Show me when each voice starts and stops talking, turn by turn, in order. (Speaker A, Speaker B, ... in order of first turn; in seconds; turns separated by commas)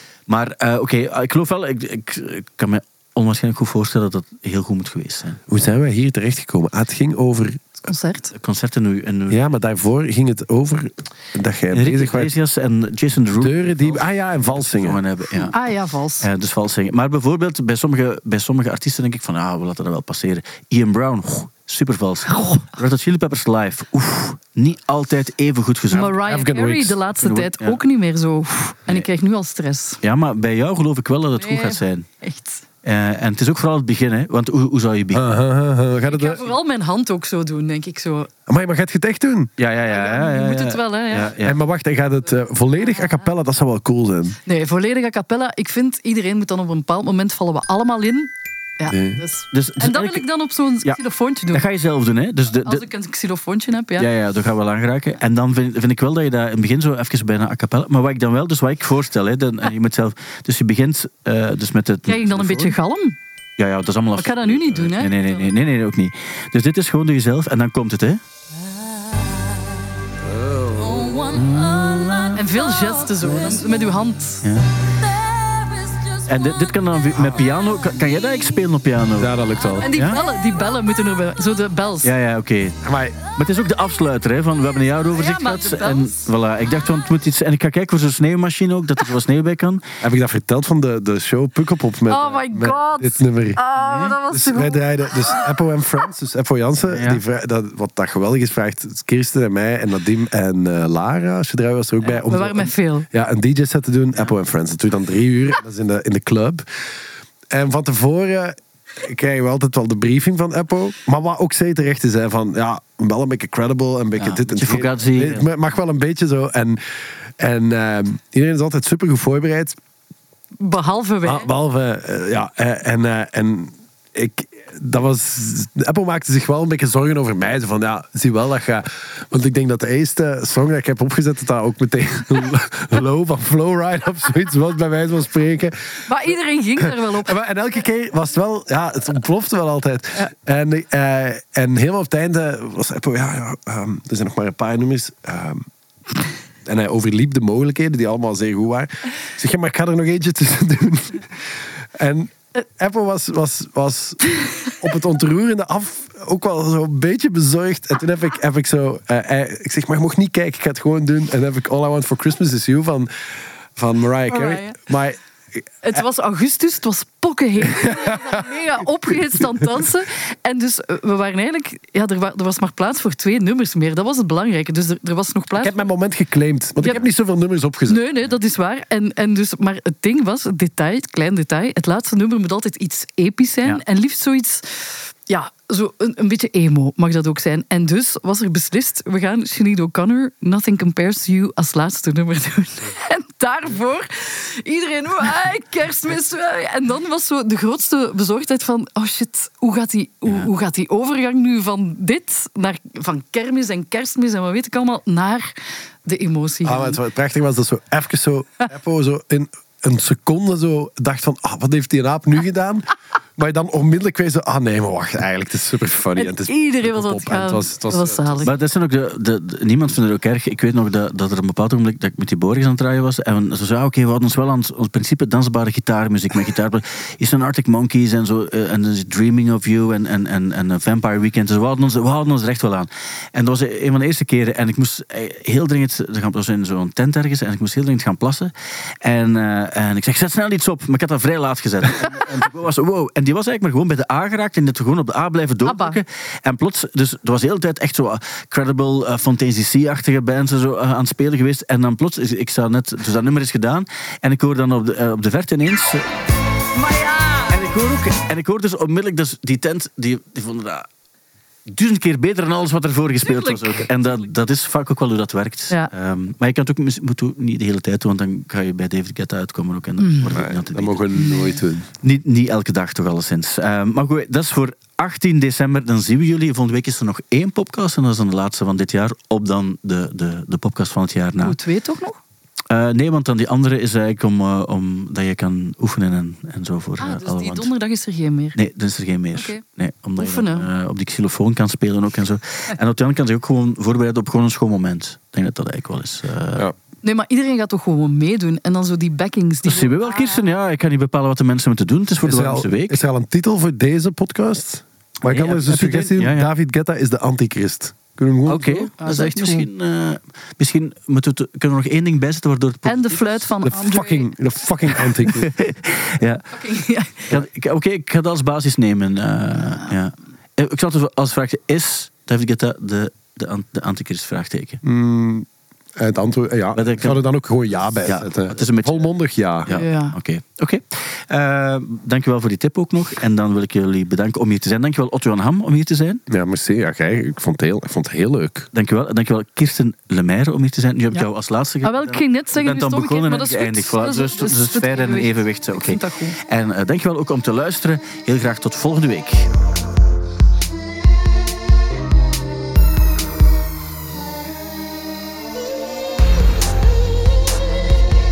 Speaker A: 0.3-5.4, Speaker B: 5.5-7.7, Speaker C: 7.9-8.3, Speaker A: 8.3-9.4, Speaker B: 9.3-12.3, Speaker A: 11.7-15.6, Speaker B: 13.4-15.0, Speaker C: 15.5-16.3, Speaker A: 16.2-26.2, Speaker C: 22.3-22.7, Speaker C: 25.9-30.0, Speaker B: 26.3-27.0, Speaker A: 27.2-27.8, Speaker A: 30.0-32.1, Speaker C: 31.4-32.6, Speaker A: 32.8-35.4, Speaker B: 35.1-36.5, Speaker C: 36.1-38.3, Speaker B: 38.5-39.5, Speaker A: 39.6-41.6, Speaker C: 39.9-41.3, Speaker B: 41.4-44.4, Speaker C: 44.5-51.6, Speaker B: 48.9-49.2, Speaker A: 49.5-50.3, Speaker A: 51.5-52.9, Speaker C: 52.6-54.1, Speaker A: 54.0-62.8, Speaker C: 62.1-63.2, Speaker A: 63.6-68.2, Speaker C: 64.2-65.5, Speaker B: 70.5-70.9, Speaker C: 70.8-71.3, Speaker A: 71.3-72.6, Speaker C: 72.3-74.4, Speaker A: 74.4-74.7, Speaker A: 76.2-80.2, Speaker B: 77.1-77.5, Speaker B: 79.2-79.9, Speaker C: 79.8-82.1, Speaker A: 82.0-82.8, Speaker B: 82.8-83.2, Speaker A: 83.3-89.8, Speaker C: 85.2-86.3, Speaker B: 90.0-93.6, Speaker C: 92.1-94.8, Speaker A: 93.8-94.2, Speaker B: 94.3-106.7, Speaker A: 96.9-97.2, Speaker C: 102.1-103.1, Speaker B: 107.5-116.8, Speaker A: 114.2-115.5, Speaker B: 117.4-119.8, Speaker C: 120.6-121.5, Speaker B: 121.2-136.1, Speaker C: 136.1-137.4, Speaker B: 136.8-145.7, Speaker B: 146.7-166.0, Speaker C: 164.3-164.8, Speaker C: 165.8-175.8, Speaker B: 167.7-168.2, Speaker B: 175.6-178.0, Speaker C: 177.9-184.7, Speaker C: 185.3-205.5, Speaker C: 206.1-207.0, Speaker B: 206.7-218.5, Speaker C: 216.2-218.5, Speaker A: 218.4-256.1, Speaker C: 245.6-246.0, Speaker C: 256.9-257.4, Speaker A: 257.5-260.9, Speaker A: 261.7-271.1, Speaker C: 270.0-270.4, Speaker B: 270.3-271.9, Speaker C: 271.1-271.6, Speaker A: 272.0-281.6, Speaker C: 281.4-282.2, Speaker A: 282.7-287.7, Speaker C: 287.0-288.6, Speaker A: 288.6-296.7, Speaker C: 289.3-289.6, Speaker C: 290.2-290.7, Speaker C: 297.0-300.4, Speaker A: 299.6-303.0, Speaker B: 302.2-308.9, Speaker A: 305.3-306.5, Speaker A: 308.5-313.5, Speaker C: 309.0-309.7, Speaker C: 312.9-314.3, Speaker B: 313.6-315.6, Speaker A: 315.0-316.5, Speaker C: 316.5-317.4, Speaker A: 317.3-324.8, Speaker B: 324.8-329.8, Speaker A: 326.8-327.2, Speaker A: 328.0-329.1, Speaker A: 329.6-336.2, Speaker C: 329.7-330.1, Speaker B: 336.3-338.7, Speaker A: 338.7-349.5, Speaker C: 341.8-346.4